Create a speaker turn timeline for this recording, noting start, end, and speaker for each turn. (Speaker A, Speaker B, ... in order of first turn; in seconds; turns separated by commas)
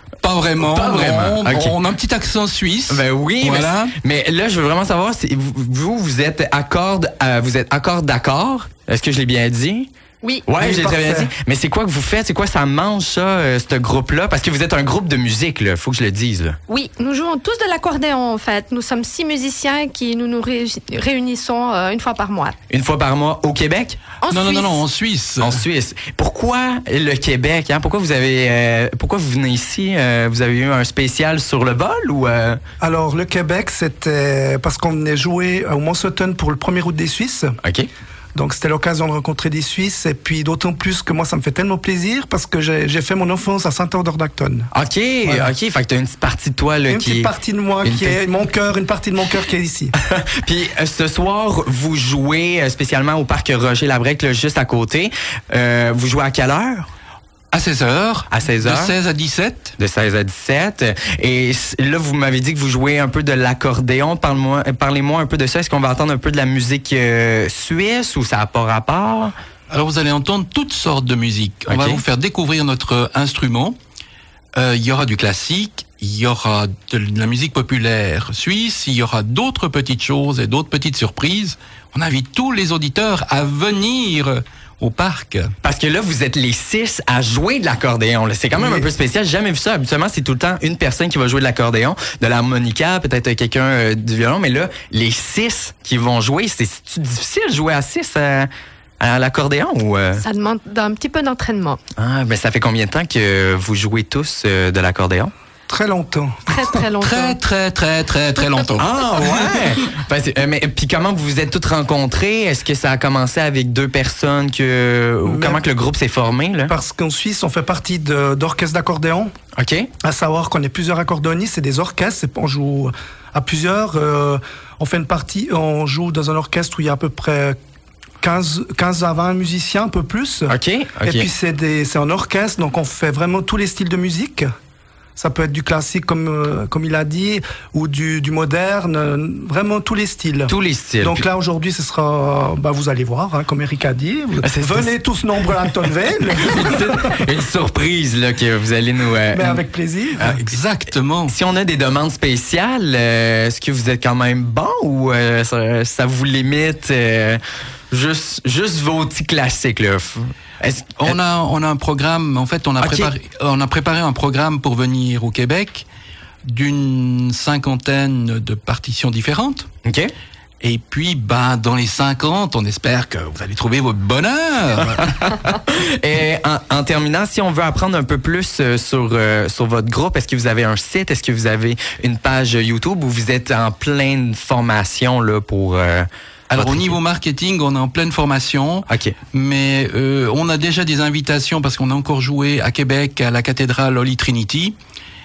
Speaker A: 0.2-3.9, Speaker B: 0.6-1.8, Speaker B: 2.9-9.9, Speaker B: 10.5-16.6, Speaker C: 10.6-11.3, Speaker D: 16.7-22.6, Speaker B: 22.7-24.0, Speaker D: 24.2-24.8, Speaker A: 24.3-25.6, Speaker B: 25.4-32.6, Speaker C: 32.8-37.5, Speaker B: 37.6-37.9, Speaker C: 38.3-44.7, Speaker B: 44.7-47.3, Speaker C: 46.9-49.9, Speaker B: 47.8-48.2, Speaker B: 50.0-56.9, Speaker A: 57.5-59.8, Speaker B: 58.3-59.0, Speaker B: 59.8-69.3, Speaker A: 69.7-73.8, Speaker B: 71.7-72.0, Speaker A: 74.5-85.5, Speaker B: 85.6-98.5, Speaker C: 88.6-88.9, Speaker B: 99.0-100.2, Speaker D: 100.2-101.8, Speaker B: 102.0-105.3, Speaker C: 105.7-106.5, Speaker D: 106.5-107.4, Speaker A: 107.0-109.4, Speaker B: 108.8-116.7, Speaker C: 115.2-115.6, Speaker C: 116.7-119.3, Speaker B: 119.6-119.9, Speaker C: 120.0-127.6, Speaker C: 128.2-134.5, Speaker B: 130.5-131.3, Speaker C: 135.2-147.2, Speaker B: 140.5-141.2, Speaker B: 144.4-144.9, Speaker B: 146.4-149.6, Speaker C: 149.3-150.4, Speaker B: 150.2-150.6, Speaker A: 150.5-151.3, Speaker B: 151.3-161.2, Speaker A: 161.0-165.9, Speaker B: 162.8-163.1, Speaker A: 166.5-169.7, Speaker B: 169.8-170.1, Speaker A: 170.6-175.1, Speaker B: 175.0-187.0, Speaker A: 186.5-194.8, Speaker B: 188.9-189.2